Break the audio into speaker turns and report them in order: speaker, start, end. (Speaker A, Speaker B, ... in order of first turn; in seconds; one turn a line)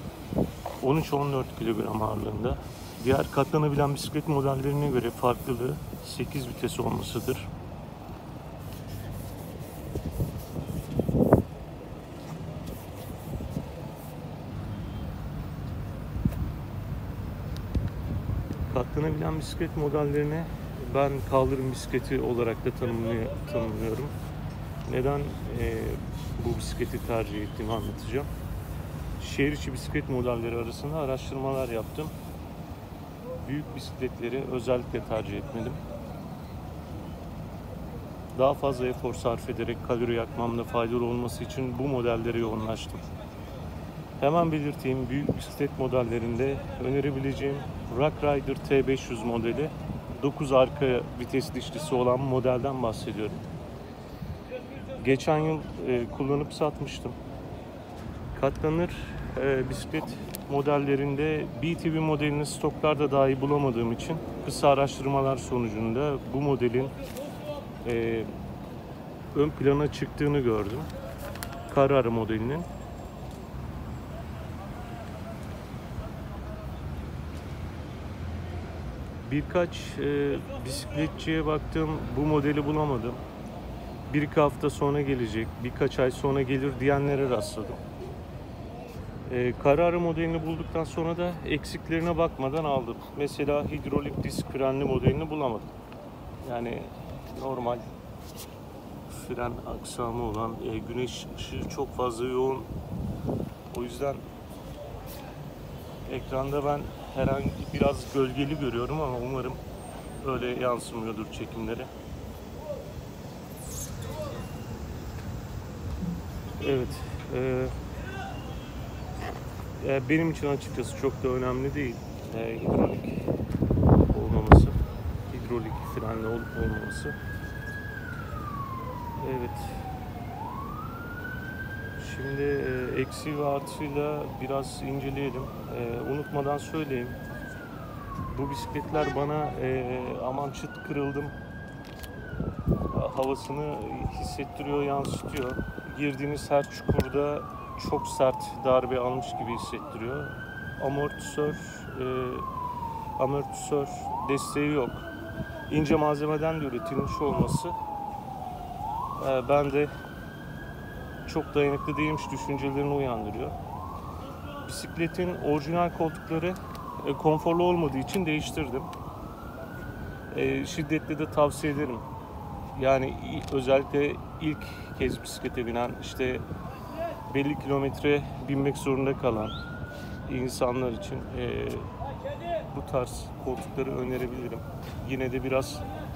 Speaker A: 0.8-7.5
Speaker A: 18.7-24.1
Speaker A: 24.9-28.3
Speaker A: 29.2-32.1
Speaker A: 33.4-35.8
Speaker A: 38.3-43.0
Speaker A: 44.2-53.4
Speaker A: 55.0-57.2
Speaker A: 58.3-66.9
Speaker A: 67.8-68.3
Speaker A: 69.3-70.9
Speaker A: 71.7-72.7
Speaker A: 79.2-83.2
Speaker A: 84.1-87.8
Speaker A: 89.2-95.7
Speaker A: 96.4-97.9
Speaker A: 99.1-102.7
Speaker A: 103.7-104.2
Speaker A: 106.0-109.6
Speaker A: 110.2-111.9
Speaker A: 116.6-117.7
Speaker A: 119.8-123.3
Speaker A: 124.0-124.8
Speaker A: 125.3-127.2
Speaker A: 129.2-129.8
Speaker A: 132.0-137.2
Speaker A: 138.3-141.3
Speaker A: 142.9-152.5
Speaker A: 153.2-155.1
Speaker A: 155.7-157.8
Speaker A: 159.2-159.9
Speaker A: 161.2-163.5
Speaker A: 164.6-168.9
Speaker A: 170.3-172.1
Speaker A: 172.7-176.4
Speaker A: 177.3-179.6
Speaker A: 180.3-181.9
Speaker A: 182.7-185.8